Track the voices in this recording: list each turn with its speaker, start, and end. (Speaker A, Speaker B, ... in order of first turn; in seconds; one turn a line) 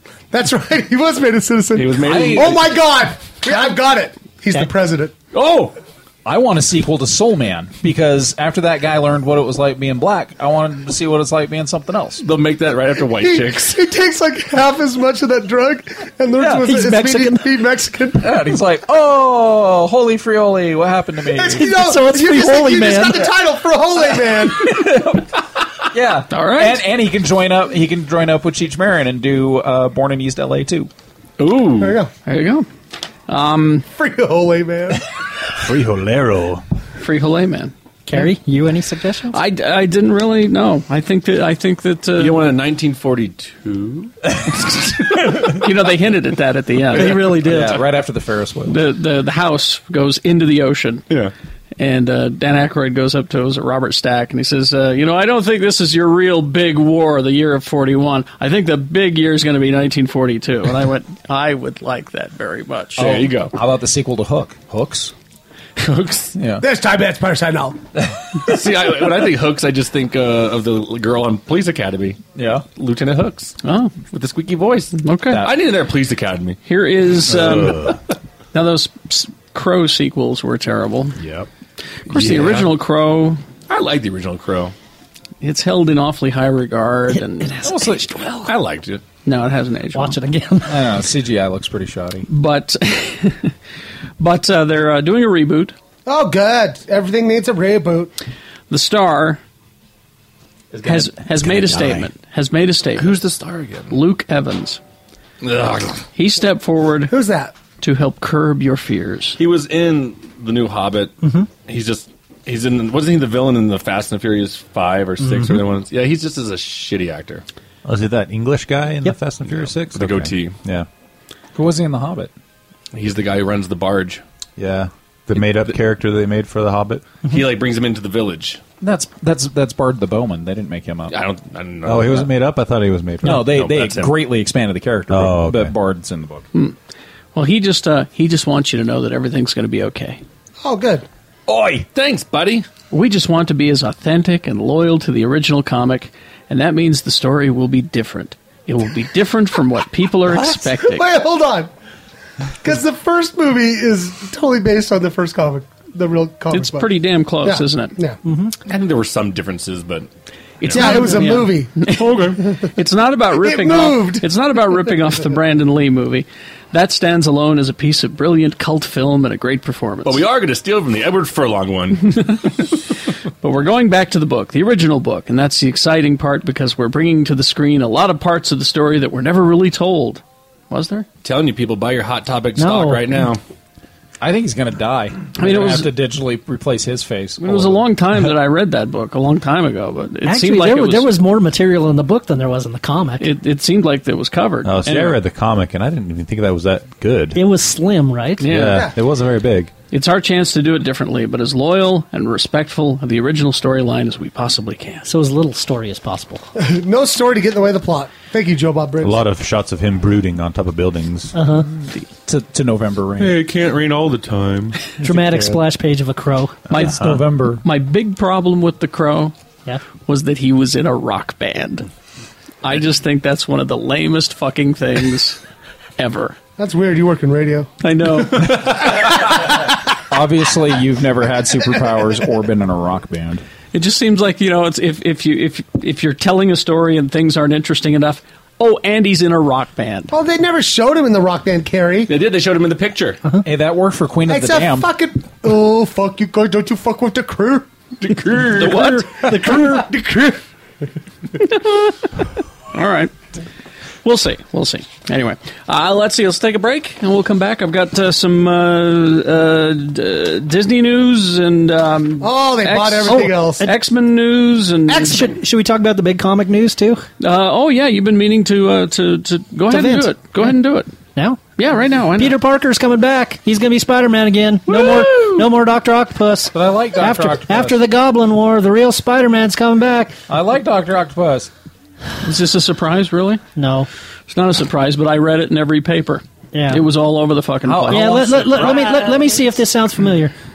Speaker A: 0.3-5.1
Speaker B: 1.7-2.7
Speaker C: 2.0-2.6
Speaker B: 5.3-5.7
Speaker C: 6.2-12.2
Speaker B: 12.2-13.8
Speaker A: 13.2-18.3
Speaker C: 16.4-16.6
Speaker D: 16.6-17.6
Speaker C: 18.1-21.7
Speaker A: 21.3-24.9
Speaker D: 21.6-23.3
Speaker C: 24.7-25.3
Speaker C: 25.9-30.9
Speaker E: 26.3-26.8
Speaker B: 31.4-32.0
Speaker A: 31.8-32.1
Speaker E: 32.2-32.7
Speaker E: 33.3-33.8
Speaker A: 34.0-35.0
Speaker F: 35.6-36.6
Speaker E: 37.0-37.7
Speaker D: 38.0-39.4
Speaker E: 39.3-42.4
Speaker B: 42.2-45.6
Speaker E: 45.5-47.3
Speaker D: 46.9-47.8
Speaker C: 47.3-48.8
Speaker E: 48.7-51.0
Speaker E: 51.8-63.1
Speaker B: 63.0-63.5
Speaker C: 63.0-65.1
Speaker B: 65.8-66.3
Speaker C: 66.3-66.6
Speaker A: 66.6-67.8
Speaker B: 68.4-72.2
Speaker C: 72.3-72.7
Speaker B: 72.8-73.5
Speaker E: 73.6-74.0
Speaker B: 74.1-76.6
Speaker E: 75.0-75.5
Speaker E: 76.6-78.0
Speaker F: 77.3-77.9
Speaker E: 78.5-81.2
Speaker F: 81.2-81.5
Speaker E: 82.1-83.4
Speaker B: 82.1-82.7
Speaker B: 83.7-84.7
Speaker E: 85.4-87.6
Speaker D: 87.1-88.4
Speaker C: 87.6-88.5
Speaker B: 88.4-89.0
Speaker E: 89.2-90.2
Speaker D: 89.9-90.8
Speaker C: 90.7-92.3
Speaker E: 92.3-93.5
Speaker E: 94.2-95.7
Speaker A: 96.0-98.1
Speaker E: 98.7-99.4
Speaker E: 100.8-103.2
Speaker B: 103.0-103.9
Speaker E: 103.9-104.8
Speaker B: 105.4-106.0
Speaker E: 106.1-107.1
Speaker A: 107.1-107.5
Speaker E: 107.8-109.4
Speaker B: 109.4-117.4
Speaker D: 111.2-111.5
Speaker D: 115.2-115.6
Speaker F: 117.8-120.9
Speaker B: 119.9-120.6
Speaker C: 121.5-122.3
Speaker B: 122.9-124.2
Speaker F: 124.6-127.1
Speaker B: 127.2-128.6
Speaker C: 128.8-131.2
Speaker B: 131.1-132.3
Speaker F: 131.8-133.6
Speaker C: 133.2-136.4
Speaker B: 133.3-134.1
Speaker F: 135.1-135.7
Speaker E: 137.3-140.2
Speaker A: 140.6-141.1
Speaker B: 141.5-142.7
Speaker E: 142.9-151.0
Speaker A: 150.5-151.7
Speaker A: 152.6-158.2
Speaker E: 156.5-157.9
Speaker D: 158.2-158.5
Speaker B: 158.7-160.1
Speaker B: 160.6-160.9
Speaker E: 160.7-170.2
Speaker A: 160.7-161.8
Speaker D: 160.7-161.3
Speaker B: 161.9-162.4
Speaker A: 162.4-162.7
Speaker A: 163.3-164.3
Speaker B: 170.0-172.7
Speaker E: 173.4-181.1
Speaker B: 181.2-183.4
Speaker D: 182.6-183.3
Speaker C: 184.2-187.8
Speaker E: 185.4-185.9
Speaker E: 187.4-191.1
Speaker D: 190.2-193.3
Speaker E: 193.2-195.2
Speaker F: 194.6-197.4
Speaker D: 197.3-198.5
Speaker E: 198.4-198.8
Speaker F: 198.4-199.7
Speaker E: 199.9-205.1
Speaker D: 205.0-206.4
Speaker A: 206.6-209.2
Speaker F: 209.0-211.3
Speaker D: 211.3-211.7
Speaker C: 212.2-213.4
Speaker B: 213.2-214.9
Speaker D: 215.0-216.9
Speaker E: 216.7-217.0
Speaker F: 216.7-217.2
Speaker C: 216.8-217.6
Speaker E: 217.6-219.3
Speaker E: 220.0-221.9
Speaker E: 222.6-225.4
Speaker E: 226.0-226.3
Speaker A: 226.6-227.7
Speaker E: 227.8-228.9
Speaker C: 230.1-233.4
Speaker E: 233.7-240.1
Speaker A: 240.1-242.1
Speaker B: 242.1-243.2
Speaker C: 243.4-244.9
Speaker A: 244.3-247.7
Speaker B: 248.0-249.0
Speaker E: 248.6-249.6
Speaker D: 248.8-249.8
Speaker A: 249.3-250.4
Speaker E: 251.5-252.0
Speaker E: 252.7-253.1
Speaker E: 254.0-265.3
Speaker A: 262.2-263.6
Speaker D: 263.1-263.8
Speaker D: 264.9-267.0
Speaker E: 267.2-270.9
Speaker D: 269.7-270.5
Speaker D: 271.1-271.4
Speaker E: 271.6-272.4
Speaker D: 272.2-280.2
Speaker E: 274.7-275.4
Speaker C: 276.5-277.8
Speaker C: 280.3-281.5
Speaker E: 282.2-283.4
Speaker D: 283.5-283.9
Speaker E: 284.3-288.6
Speaker D: 286.5-286.9
Speaker C: 287.6-289.1
Speaker D: 287.9-290.3